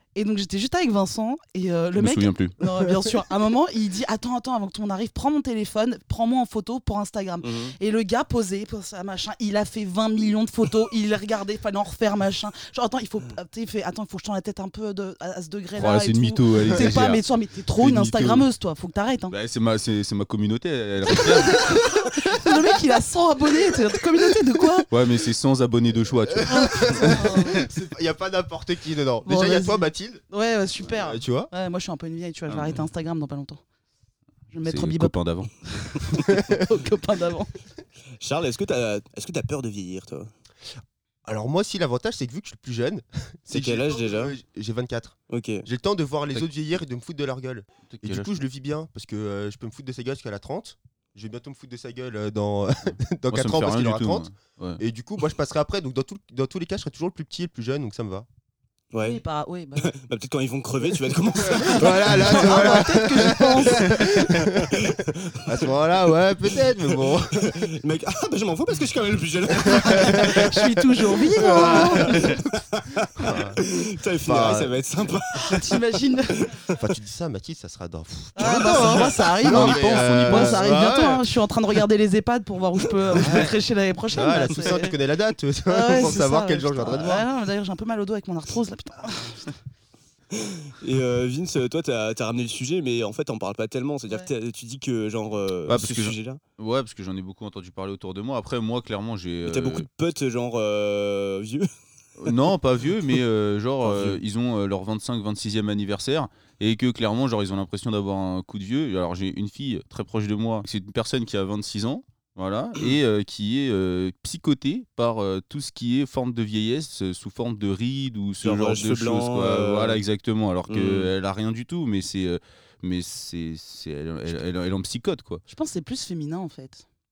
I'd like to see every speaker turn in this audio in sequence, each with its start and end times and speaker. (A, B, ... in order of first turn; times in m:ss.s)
0:00.1-0:19.4 A
0:01.9-0:02.5 B
0:07.4-0:07.7 C
0:15.8-0:17.2 B
0:17.8-0:18.4 B
0:19.3-0:21.8 B
0:21.1-0:24.9 A
0:24.9-0:27.7 B
0:26.4-0:30.2 D
0:26.8-0:27.7 A
0:29.2-0:33.6 A
0:30.8-0:31.5 D
0:32.5-0:32.8 B
0:34.5-0:37.5 A
0:34.6-0:36.3 B
0:38.2-0:40.3 C
0:41.2-0:58.3 D
0:43.5-0:44.3 C
0:45.3-0:45.7 C
0:47.9-0:48.3 B
0:53.3-0:54.8 B
0:58.9-0:59.2 C
0:59.0-0:59.9 A
0:59.8-1:02.7 C
1:01.5-1:07.7 D
1:01.6-1:04.0 A
1:04.2-1:05.7 C
1:06.5-1:10.6 C
1:09.7-1:10.5 D
1:09.8-1:12.4 A
1:11.2-1:12.4 D
1:11.4-1:15.8 C
1:13.2-1:13.6 D
1:14.2-1:14.8 D
1:15.4-1:16.5 A
1:16.3-1:16.7 C
1:16.7-1:21.2 D
1:18.4-1:25.0 A
1:19.4-1:20.8 B
1:23.1-1:23.6 D
1:23.2-1:23.5 B
1:24.1-1:27.3 D
1:25.7-1:29.6 A
1:30.3-1:36.4 C
1:35.7-1:39.8 B
1:39.4-1:41.7 C
1:42.2-2:05.4 B
1:43.8-1:44.2 C
1:58.4-2:00.0 C
2:00.7-2:01.1 C
2:05.5-2:06.8 A